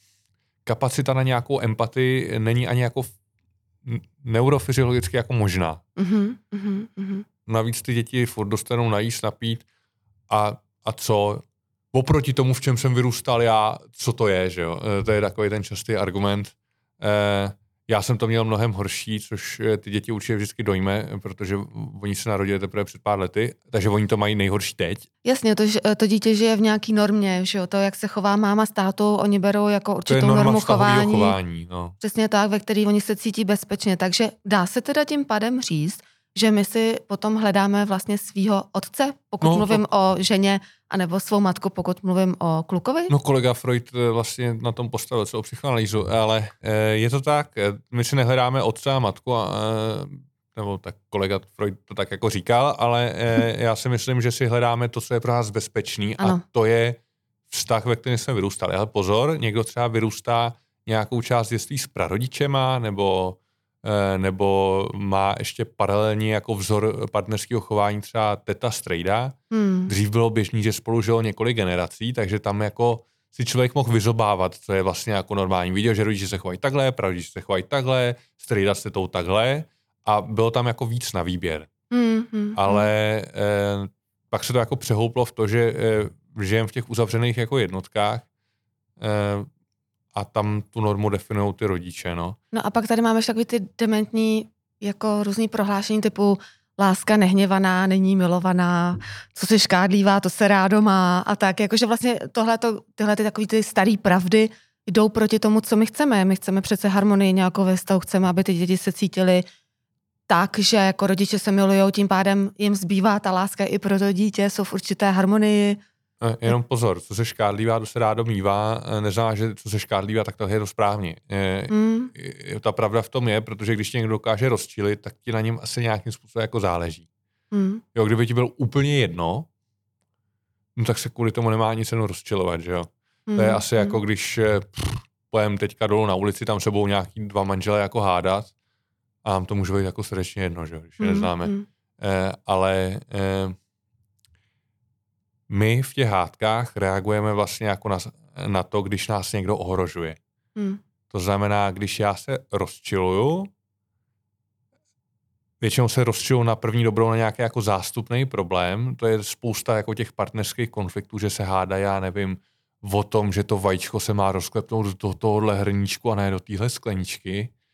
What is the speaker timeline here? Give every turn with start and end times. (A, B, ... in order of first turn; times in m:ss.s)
0:00.6-0:03.1 A
0:03.8-0:05.8 A
0:06.0-0:07.2 B
0:07.4-0:09.6 A
0:10.3-0:25.1 A
0:25.2-0:31.4 B
0:30.1-0:32.0 A
0:32.0-0:43.1 B
0:39.4-0:39.8 A
0:43.1-0:57.0 A
0:57.5-1:09.4 A
1:09.5-1:09.9 B
1:09.9-1:21.7 A
1:21.9-1:22.9 B
1:22.5-1:28.3 A
1:29.0-1:29.5 A
1:30.1-1:32.4 A
1:32.5-1:49.4 B
1:50.3-1:55.8 B
1:56.2-2:07.1 A
2:01.7-2:02.1 B
2:07.5-2:07.8 B
2:07.9-2:09.5 A
2:10.8-2:18.5 A
2:13.3-2:14.0 B
2:19.2-2:23.6 A
2:21.0-2:21.6 B
2:25.5-2:30.2 A
2:31.1-2:33.5 A
2:35.6-2:47.5 A